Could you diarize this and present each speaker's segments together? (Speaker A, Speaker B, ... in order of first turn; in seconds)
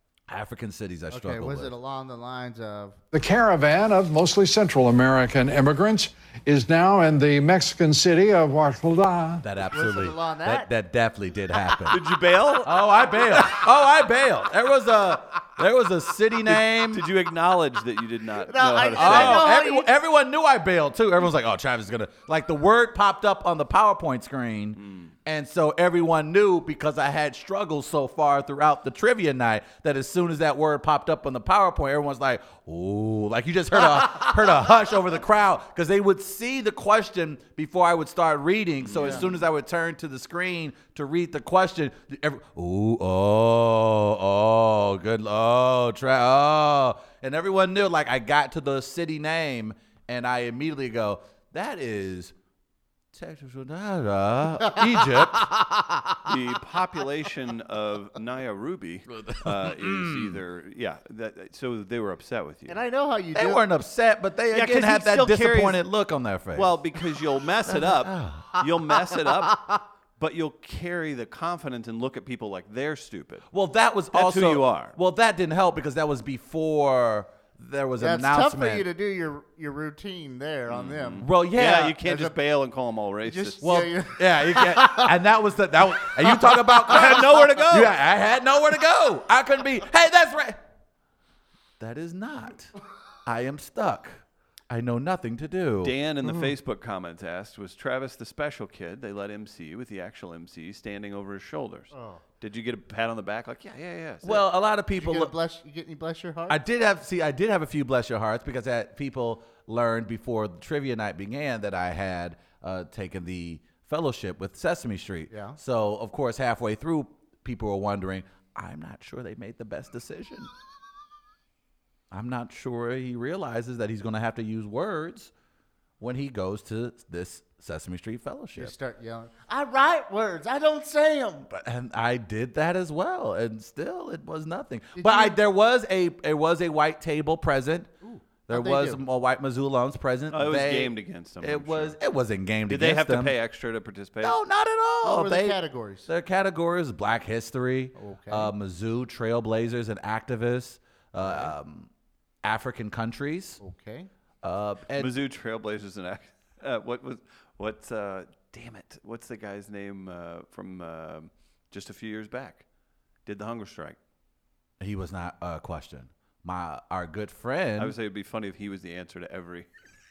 Speaker A: 0.3-1.8, 9.4-12.1, 12.6-17.1, 18.9-52.3, 53.1-55.7, 59.1-60.4, 63.3-66.8, 67.6-69.8, 73.5-78.9, 81.2-82.0, 83.6-90.6, 91.8-92.7, 93.2-96.0, 104.2-105.3, 106.5-120.5, 122.1-125.3, 126.0-128.7, 131.5-137.9, 138.5-143.4, 144.2-151.9, 152.4-153.6, 154.4-155.2, 164.8-168.0
Speaker B: 1.1-3.0, 9.7-10.7, 18.5-19.9, 39.0-39.3, 54.6-55.2, 62.7-63.6, 78.0-81.3, 82.0-82.4, 83.2-85.1, 86.0-87.2, 101.9-102.2, 104.9-106.6, 115.3-115.6, 128.6-131.5, 134.9-135.4, 138.0-139.0, 145.0-146.1, 147.9-148.5, 151.2-151.5, 153.6-154.1
Speaker C: 3.1-9.4
Speaker D: 11.9-13.7, 16.5-19.5, 24.8-25.1, 38.8-39.4, 56.2-62.8, 64.5-65.8, 66.5-69.6, 70.2-73.5, 74.1-75.0, 80.7-83.6, 86.9-88.0, 95.8-104.4, 140.3-142.0, 142.7-144.4, 154.9-162.7, 163.3-164.0, 167.8-169.7